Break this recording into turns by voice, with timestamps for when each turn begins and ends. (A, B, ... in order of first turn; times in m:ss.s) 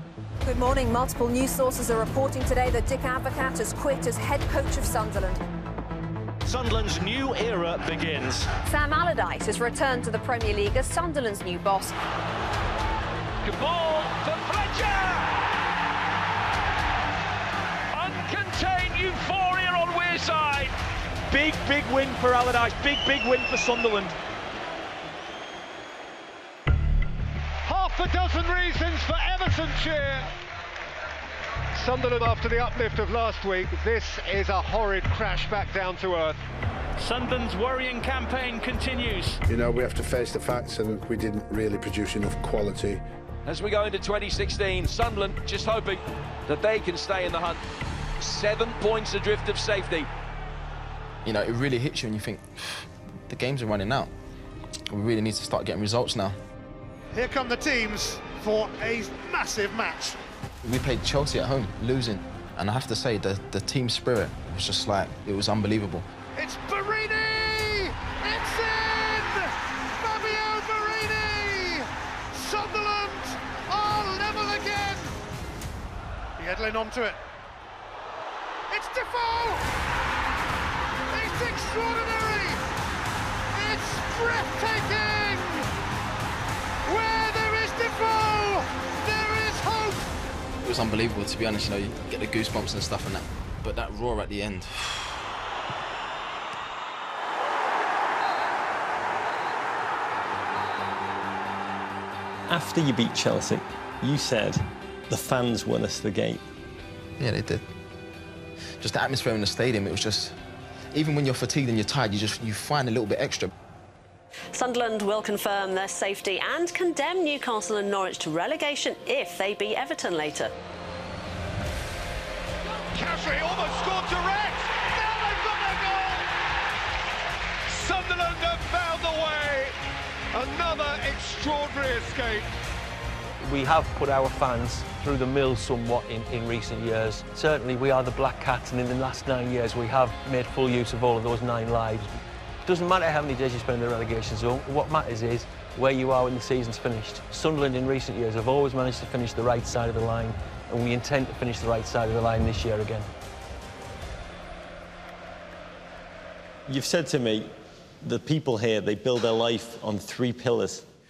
0:00.4-0:05.4 A
0:06.5-0:08.4 B
0:08.6-0:12.0 A
0:13.4-0:15.4 C
0:17.9-0:20.7 C
0:27.7-0:30.3 D
0:31.8-0:36.4 D
0:37.0-0:39.4 B
0:39.5-0:43.0 E
0:43.5-0:47.6 C
0:48.2-0:50.1 C
0:51.2-0:54.1 F
0:54.9-0:56.4 F
0:57.1-1:00.2 D
1:00.6-1:06.1 F
1:06.4-1:09.5 D
1:10.0-1:15.1 D
1:16.4-1:17.2 D
1:18.7-1:19.6 D
1:21.1-1:22.6 D
1:23.6-1:25.7 D
1:26.9-1:30.0 D
1:30.6-1:35.2 F
1:42.5-1:46.4 G
1:47.2-1:47.6 F
1:48.8-1:50.4 F
1:50.9-1:53.5 F
1:54.5-2:00.5 H
2:02.9-2:06.2 D
2:07.7-2:09.7 D
2:10.3-2:12.5 D
2:13.4-2:22.1 I
2:22.7-2:33.1 I
2:36.7-2:37.5 G
2:38.0-2:40.8 G